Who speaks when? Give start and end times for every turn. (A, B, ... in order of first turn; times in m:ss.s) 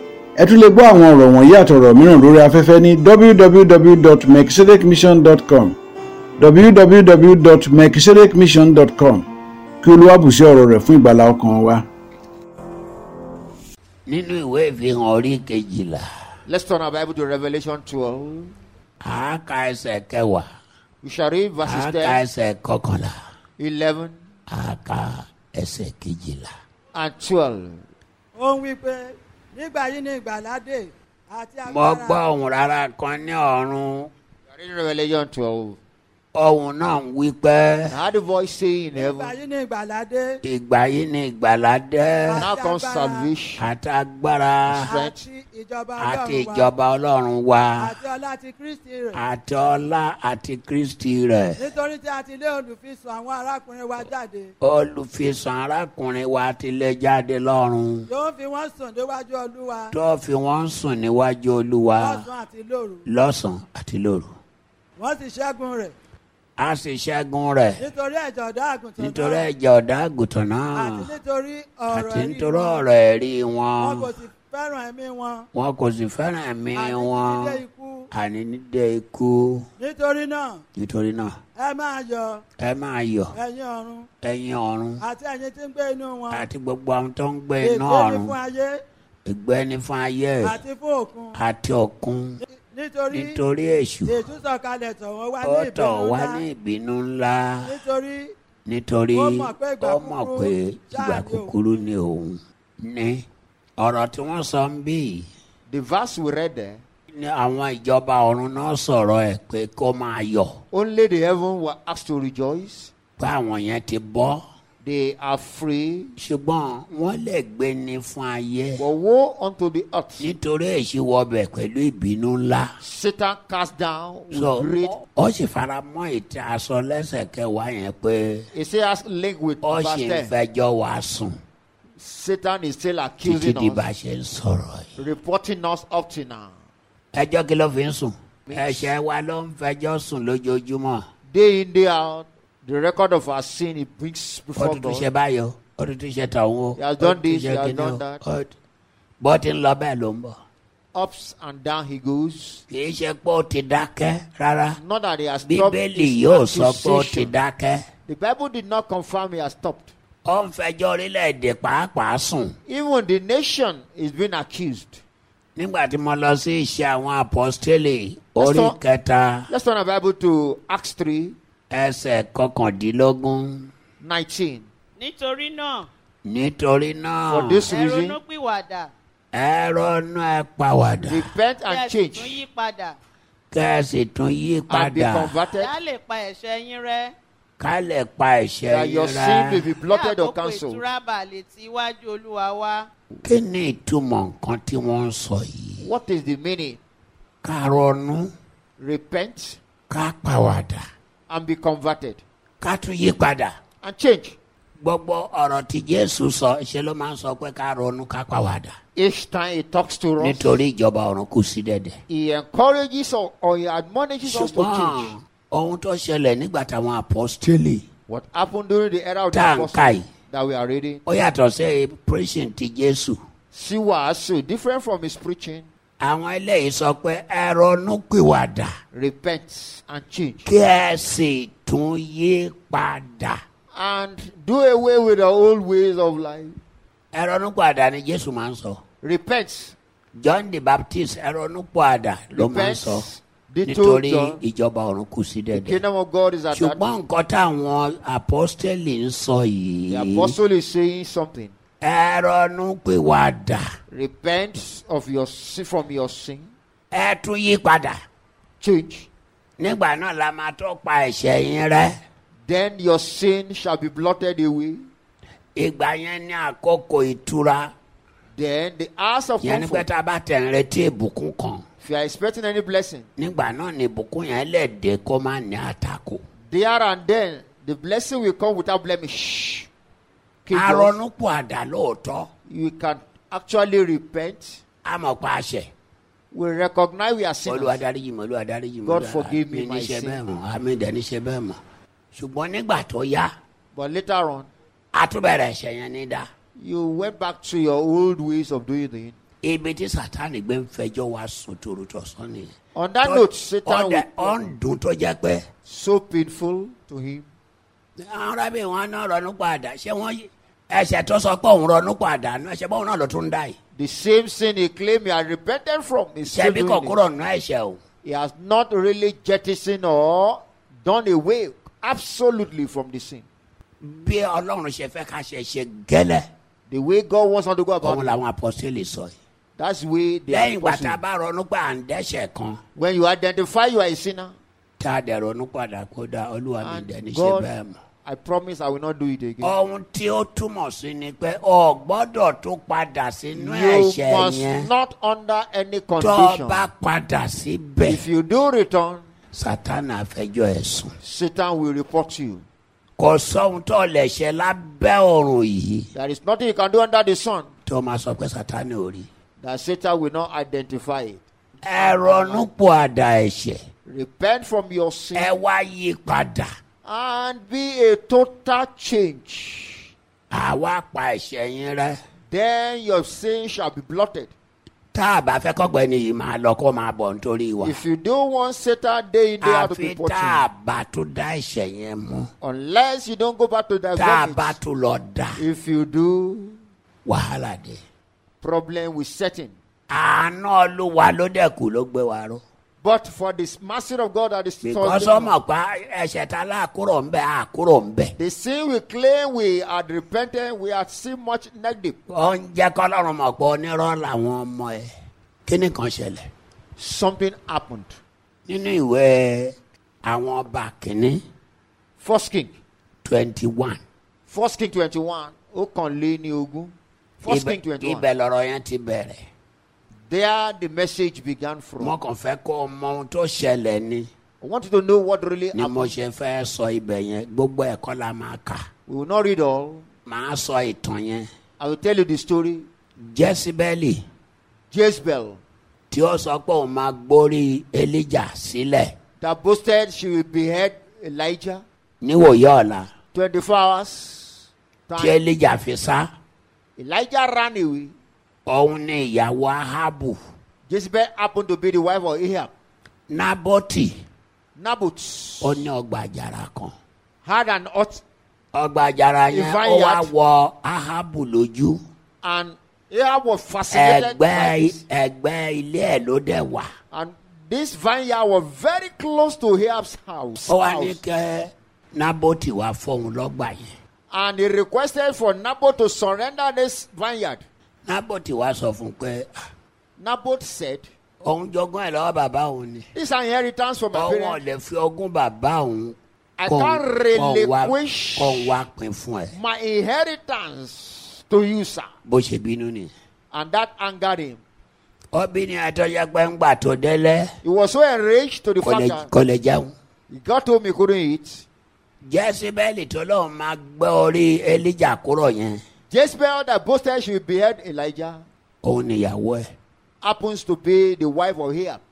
0:00.4-0:05.8 A
0:06.4-0:09.3 A
0:09.8-0:11.9 A
0:14.1-0:16.0 B
0:16.5-0:18.6 C
0:19.0-0:20.5 B
0:21.0-0:22.2 C
0:21.6-0:23.2 B
0:23.6-0:24.2 C
0:24.5-0:26.5 B
0:27.0-0:27.8 C
0:28.4-0:32.2 D
0:31.7-0:34.1 B
0:34.5-0:35.8 C
0:36.4-0:38.0 B
0:37.9-0:39.3 C
0:39.0-0:40.4 D
0:39.2-0:39.5 E
0:40.4-0:42.5 B
0:42.4-0:43.6 C
0:42.5-0:43.3 E
0:43.6-0:44.9 B
0:44.7-0:45.2 C
0:44.9-0:45.4 E
0:45.3-0:46.6 D
0:46.0-0:47.9 B
0:47.8-0:49.1 D
0:49.2-0:51.6 B
0:51.6-0:54.5 D
0:54.6-0:58.1 B
0:58.1-0:59.9 D
0:59.9-1:02.2 B
1:02.0-1:03.0 D
1:03.1-1:04.3 B
1:05.0-1:05.9 D
1:06.6-1:07.8 B
1:07.8-1:09.5 D
1:09.0-1:11.1 B
1:10.7-1:12.8 D
1:11.9-1:14.1 B
1:13.8-1:15.4 D
1:15.5-1:17.6 B
1:16.7-1:18.1 D
1:18.1-1:19.7 B
1:19.8-1:20.6 D
1:20.8-1:21.3 B
1:21.6-1:22.4 D
1:22.6-1:23.3 B
1:23.4-1:24.0 D
1:24.2-1:25.0 B
1:25.0-1:26.4 D
1:26.3-1:28.3 B
1:27.6-1:28.8 D
1:29.3-1:30.6 B
1:30.4-1:31.3 D
1:31.4-1:32.4 B
1:32.7-1:33.3 D
1:33.1-1:34.2 B
1:34.1-1:36.4 D
1:35.4-1:37.7 B
1:37.7-1:38.3 D
1:38.7-1:43.2 B
1:39.1-1:41.5 D
1:43.8-1:45.3 B
1:45.7-1:46.8 C
1:47.1-1:50.6 B
1:50.7-1:52.9 C
1:53.2-1:54.4 B
1:54.8-1:56.1 C
1:56.2-1:58.8 B
1:58.8-2:00.3 C
2:00.2-2:02.7 B
2:02.8-2:05.0 C
2:04.3-2:08.5 B
2:08.5-2:10.4 C
2:09.6-2:11.4 B
2:12.0-2:13.9 C
2:13.2-2:14.9 B
2:15.0-2:16.5 C
2:17.1-2:21.0 B
2:18.5-2:19.0 C
2:21.3-2:25.1 C
2:24.6-2:28.5 B
2:26.8-2:28.2 C
2:29.2-2:30.4 B
2:30.9-2:32.6 C
2:32.7-2:34.8 B
2:34.8-2:37.3 C
2:35.4-2:37.8 B
2:38.1-2:39.9 C
2:40.2-2:42.6 B
2:42.7-2:45.0 C
2:45.6-2:49.5 B
2:48.4-2:48.8 C
2:49.5-2:51.4 C
2:51.7-2:53.7 B
2:54.0-2:54.7 C
2:55.0-2:55.9 E
2:56.2-2:57.7 B
2:57.3-2:58.2 C
2:57.7-2:58.9 E
2:59.3-3:01.3 B
3:01.0-3:02.4 C
3:01.7-3:03.0 E
3:03.5-3:05.4 B
3:04.7-3:05.7 C
3:05.6-3:07.1 E
3:07.6-3:09.6 B
3:08.7-3:10.8 C
3:09.9-3:12.9 E
3:13.2-3:15.9 B
3:15.8-3:16.8 C
3:17.4-3:18.3 B
3:18.8-3:19.6 C
3:19.9-3:20.8 B
3:21.3-3:22.2 C
3:22.6-3:23.6 B
3:23.8-3:24.4 C
3:24.8-3:28.7 B
3:29.0-3:30.6 C
3:30.2-3:32.0 B
3:32.1-3:35.1 C
3:34.2-3:37.8 B
3:38.1-3:41.0 C
3:39.3-3:40.1 B
3:41.1-3:43.2 B
3:43.5-3:45.7 C
3:46.0-3:48.7 B
3:48.9-3:50.5 C
3:50.5-3:53.4 B
3:53.7-3:56.6 C
3:57.1-3:58.8 B
3:59.0-3:59.8 C
4:00.2-4:03.0 B
4:02.3-4:04.4 C
4:03.6-4:05.8 B
4:05.5-4:06.9 C
4:06.5-4:10.4 B
4:09.9-4:11.5 C
4:11.8-4:13.6 B
4:13.9-4:16.5 C
4:16.9-4:18.0 B
4:18.6-4:19.1 C
4:19.6-4:22.0 B
4:22.5-4:24.9 C
4:25.6-4:27.7 B
4:28.3-4:29.9 C
4:29.4-4:31.6 B
4:31.8-4:33.1 C
4:33.2-4:36.2 B
4:36.5-4:39.7 C
4:40.5-4:41.0 C
4:40.5-4:42.3 B
4:42.5-4:44.6 C
4:44.8-4:45.7 B
4:46.3-4:47.8 C
4:47.5-4:51.6 B
4:48.8-4:50.2 C
4:52.1-4:53.3 B
4:53.7-4:54.5 C
4:54.9-4:56.3 B
4:56.6-4:59.2 C
4:59.4-5:05.4 B
5:02.8-5:04.5 C
5:05.7-5:07.3 C
5:08.0-5:13.6 B
5:13.8-5:17.0 C
5:16.3-5:17.8 B
5:18.0-5:23.2 C
5:24.0-5:26.3 B
5:26.7-5:28.2 C
5:27.8-5:29.2 B
5:29.6-5:31.0 C
5:30.3-5:32.6 B
5:32.8-5:34.3 C
5:34.8-5:37.8 B
5:36.6-5:37.5 C
5:38.0-5:39.6 C
5:39.4-5:44.7 B
5:43.3-5:46.7 C
5:46.0-5:48.0 B
5:47.9-5:49.0 C
5:49.3-5:50.9 B
5:51.0-5:52.4 C
5:53.0-5:55.9 B
5:55.9-5:57.5 C
5:57.7-5:59.1 B
5:59.4-6:01.2 C
6:01.6-6:03.6 B
6:01.8-6:02.5 C
6:03.9-6:05.3 C
6:05.2-6:06.5 B
6:06.8-6:09.9 C
6:10.3-6:12.0 B
6:12.3-6:14.3 C
6:14.9-6:17.8 B
6:17.6-6:20.4 C
6:19.4-6:22.3 B
6:22.4-6:24.6 C
6:24.0-6:25.4 B
6:25.4-6:26.6 C
6:27.0-6:27.8 B
6:28.4-6:29.5 C
6:29.9-6:32.4 B
6:32.8-6:35.4 C
6:34.6-6:38.1 B
6:38.2-6:42.0 C
6:42.1-6:44.9 B
6:45.5-6:46.3 B
6:46.8-6:48.0 C
6:48.5-6:51.2 B
6:52.0-6:52.6 C
6:53.0-6:53.8 B
6:54.3-6:58.1 C
6:57.3-6:59.2 B
7:00.1-7:02.0 C
7:01.8-7:04.1 B
7:04.4-7:06.0 C
7:05.5-7:08.6 B
7:08.9-7:09.8 C
7:10.1-7:11.3 B
7:11.6-7:12.7 C
7:13.0-7:14.0 B
7:14.7-7:15.4 C
7:15.9-7:18.9 B
7:19.2-7:21.6 C
7:22.0-7:22.9 B
7:23.1-7:25.2 C
7:25.0-7:26.1 B
7:26.8-7:28.0 C
7:28.5-7:30.2 B
7:30.7-7:32.5 C
7:33.1-7:34.0 B
7:34.6-7:35.6 C
7:35.4-7:36.7 B
7:37.2-7:38.0 C
7:38.5-7:41.8 B
7:39.3-7:40.1 C
7:42.2-7:44.8 C
7:43.7-7:46.7 B
7:46.9-7:51.0 C
7:50.5-7:53.6 B
7:54.1-7:57.4 C
7:57.8-7:59.3 B
8:00.0-8:00.9 C
8:01.2-8:02.9 B
8:03.0-8:04.4 C
8:03.9-8:06.0 B
8:06.4-8:08.6 C
8:06.5-8:09.4 B
8:09.3-8:11.9 C
8:12.0-8:12.9 B
8:13.3-8:14.4 C
8:15.1-8:17.3 B
8:17.4-8:19.1 C
8:18.6-8:19.7 B
8:20.1-8:21.4 C
8:22.0-8:25.6 B
8:25.9-8:28.2 C
8:28.6-8:29.5 B
8:30.0-8:31.8 C